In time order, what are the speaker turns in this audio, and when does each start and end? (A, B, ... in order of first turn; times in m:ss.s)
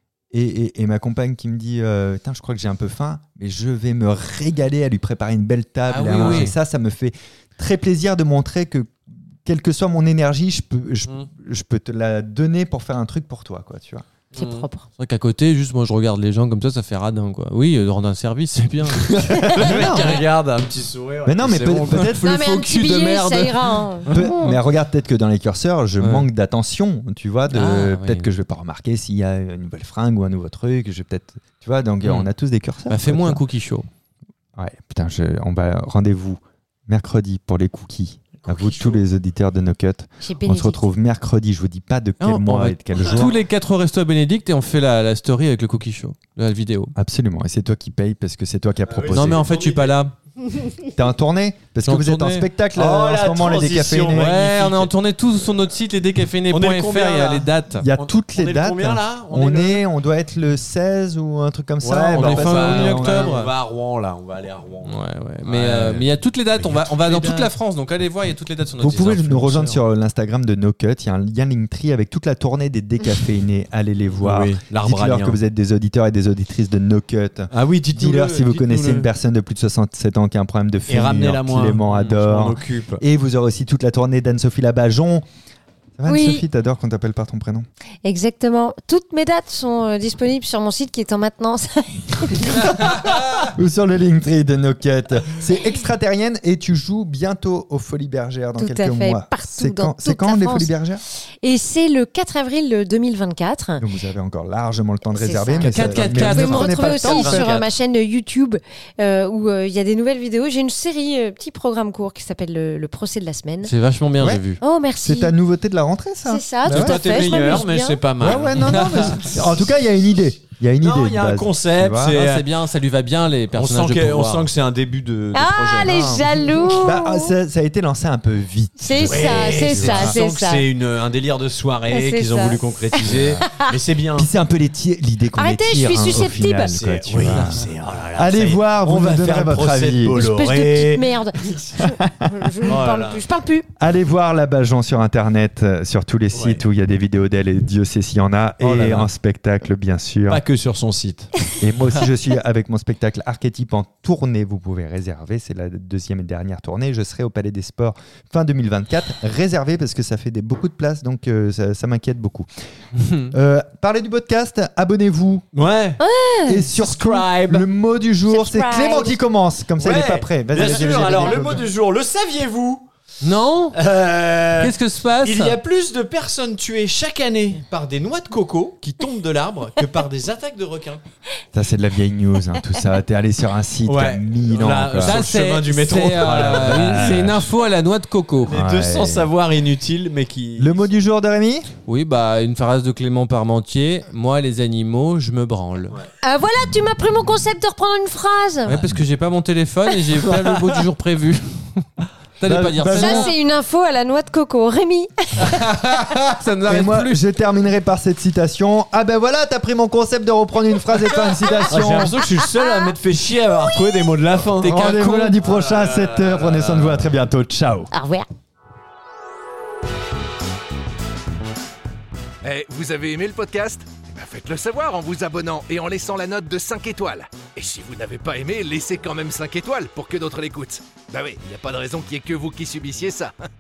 0:00.3-0:14.0 A
0:05.9-0:06.6 B
0:06.0-0:06.5 C
0:14.3-0:14.7 C
0:14.4-0:14.9 D
0:15.0-0:19.2 B
0:18.8-0:20.2 A
0:19.2-0:19.6 D
0:19.5-0:22.1 C
0:19.8-0:20.0 B
0:21.2-0:23.5 A
0:22.2-0:24.2 D
0:24.0-0:33.4 A
0:26.0-0:26.3 B
0:27.5-0:28.3 B
0:32.0-0:32.3 B
0:32.9-0:33.9 B
0:34.6-0:43.4 A
0:38.4-0:39.0 C
0:40.2-0:40.8 D
0:42.2-0:46.9 B
0:47.0-0:49.5 A
0:48.9-0:50.0 C
0:49.1-0:50.1 B
0:50.9-0:54.4 A
0:51.8-0:52.5 B
0:52.8-0:54.9 C
0:54.1-0:57.9 B
0:56.5-0:59.8 C
0:57.8-1:03.4 A
1:01.8-1:07.5 C
1:02.2-1:03.5 B
1:04.8-1:09.8 B
1:08.8-1:25.2 A
1:14.2-1:15.4 C
1:17.5-1:19.1 C
1:20.9-1:23.0 C
1:26.0-1:27.7 A
1:26.1-1:26.4 D
1:28.0-1:32.9 D
1:32.4-1:41.0 A
1:38.6-1:40.7 D
1:41.4-1:43.8 D
1:43.8-1:47.5 A
1:45.1-1:53.7 D
1:45.6-1:46.4 C
1:45.7-1:47.5 B
1:53.6-1:54.6 B
1:54.6-1:55.4 D
1:55.0-1:57.7 A
1:56.2-1:58.3 D
1:56.7-1:59.7 C
1:58.2-2:02.2 A
1:58.6-1:59.2 B
2:00.8-2:02.5 C
2:02.0-2:04.5 B
2:03.5-2:06.4 C
2:05.3-2:07.3 D
2:05.8-2:10.2 A
2:08.8-2:10.6 D
2:09.0-2:14.3 C
2:11.9-2:13.7 D
2:14.2-2:20.3 A
2:15.4-2:16.8 D
2:16.7-2:21.6 C
2:17.2-2:17.6 B
2:20.1-2:23.7 D
2:21.8-2:22.5 A
2:22.6-2:23.2 C
2:23.8-2:30.4 A
2:26.3-2:26.6 C
2:28.6-2:29.1 C
2:30.3-2:31.4 C
2:31.6-2:42.5 A
2:43.0-2:43.3 B
2:43.3-2:45.5 A
2:45.5-2:46.0 C
2:46.0-2:46.6 D
2:46.5-2:51.7 A
2:46.7-2:47.7 C
2:48.3-2:49.2 D
2:49.8-2:52.9 C
2:53.2-2:53.8 B
2:53.7-3:01.0 C
2:54.6-2:55.6 B
3:01.5-3:05.2 A
3:03.8-3:07.4 C
3:05.0-3:08.6 B
3:06.0-3:07.5 A
3:08.5-3:10.9 C
3:08.5-3:09.3 A
3:10.6-3:11.7 A
3:11.9-3:16.0 B
3:16.2-3:18.8 D
3:18.7-3:21.9 B
3:22.4-3:23.3 B
3:22.5-3:23.3 A
3:22.9-3:25.7 D
3:25.4-3:27.2 B
3:26.6-3:32.2 A
3:31.6-3:37.1 C
3:32.4-3:32.9 D
3:34.5-3:37.9 A
3:37.9-3:38.3 D
3:42.4-3:53.3 E